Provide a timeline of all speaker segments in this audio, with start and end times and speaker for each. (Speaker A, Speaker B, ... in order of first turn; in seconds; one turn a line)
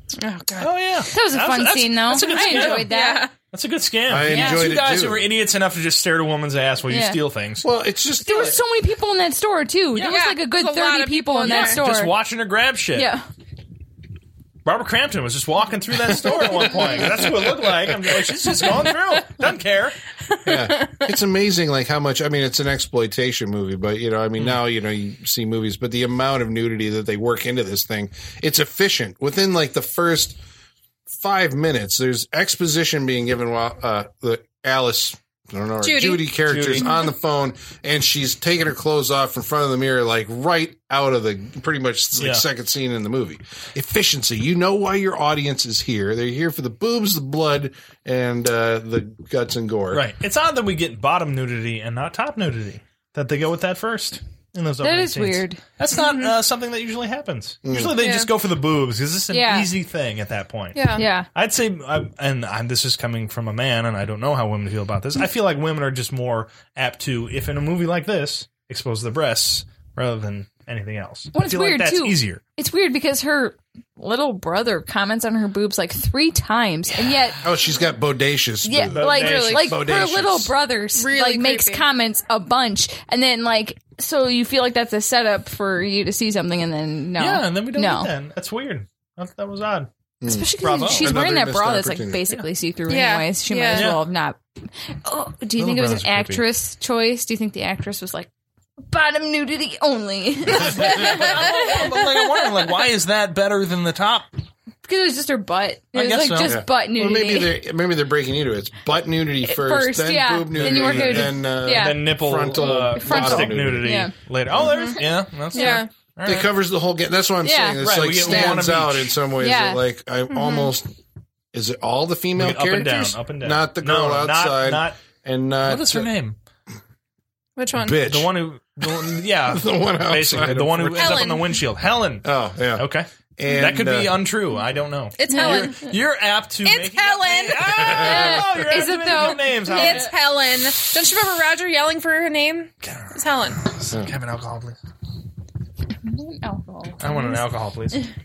Speaker A: 0.2-0.7
Speaker B: 0.6-2.9
Speaker C: 1.1-3.3
Speaker A: 2.2-3.3
Speaker B: 3.5-7.7
Speaker D: 4.1-5.3
Speaker C: 4.3-4.7
Speaker C: 6.9-7.2
Speaker D: 7.6-8.6
Speaker C: 8.2-12.1
Speaker A: 10.0-11.8
Speaker B: 11.4-13.1
Speaker C: 12.9-13.2
Speaker B: 14.7-20.0
Speaker D: 16.2-18.1
Speaker D: 20.4-30.4
Speaker A: 20.5-21.0
Speaker D: 31.1-50.0
Speaker A: 35.8-36.3
Speaker B: 36.5-36.9
Speaker B: 42.2-42.4
Speaker B: 49.9-72.4
Speaker C: 54.8-55.6
Speaker A: 55.9-56.3
Speaker D: 57.6-58.0
Speaker A: 57.9-58.3
Speaker C: 59.3-59.7
Speaker A: 60.8-61.0
Speaker C: 61.0-61.3
Speaker C: 71.3-77.4
Speaker B: 77.0-77.2
Speaker D: 77.4-80.5
Speaker C: 78.6-88.1
Speaker B: 78.9-79.7
Speaker A: 79.2-79.7
Speaker A: 81.0-81.8
Speaker B: 87.2-89.9
Speaker D: 90.2-92.2
Speaker C: 90.3-98.3
Speaker B: 90.6-91.1
Speaker A: 92.9-93.9
Speaker B: 93.7-94.0
Speaker B: 95.6-96.4
Speaker C: 98.9-102.3
Speaker B: 100.5-104.3
Speaker C: 104.8-107.5
Speaker B: 105.9-106.6
Speaker D: 106.4-114.8
Speaker C: 109.4-114.1
Speaker B: 110.5-116.5
Speaker A: 114.7-115.0
Speaker A: 115.5-115.9
Speaker C: 115.5-115.8
Speaker D: 116.2-120.9
Speaker C: 117.4-118.6
Speaker B: 117.8-119.2
Speaker C: 119.4-119.8
Speaker A: 120.3-120.7
Speaker D: 121.5-126.1
Speaker B: 122.4-125.0
Speaker B: 125.6-126.4
Speaker A: 127.6-128.0
Speaker D: 127.7-131.3
Speaker B: 127.9-140.1
Speaker A: 131.0-131.5
Speaker D: 132.2-134.2
Speaker A: 135.2-135.9
Speaker C: 135.3-135.7
Speaker A: 136.7-138.1
Speaker D: 137.7-138.5
Speaker C: 137.8-140.1
Speaker A: 139.2-143.6
Speaker B: 142.8-144.8
Speaker C: 146.1-147.4
Speaker B: 147.0-148.1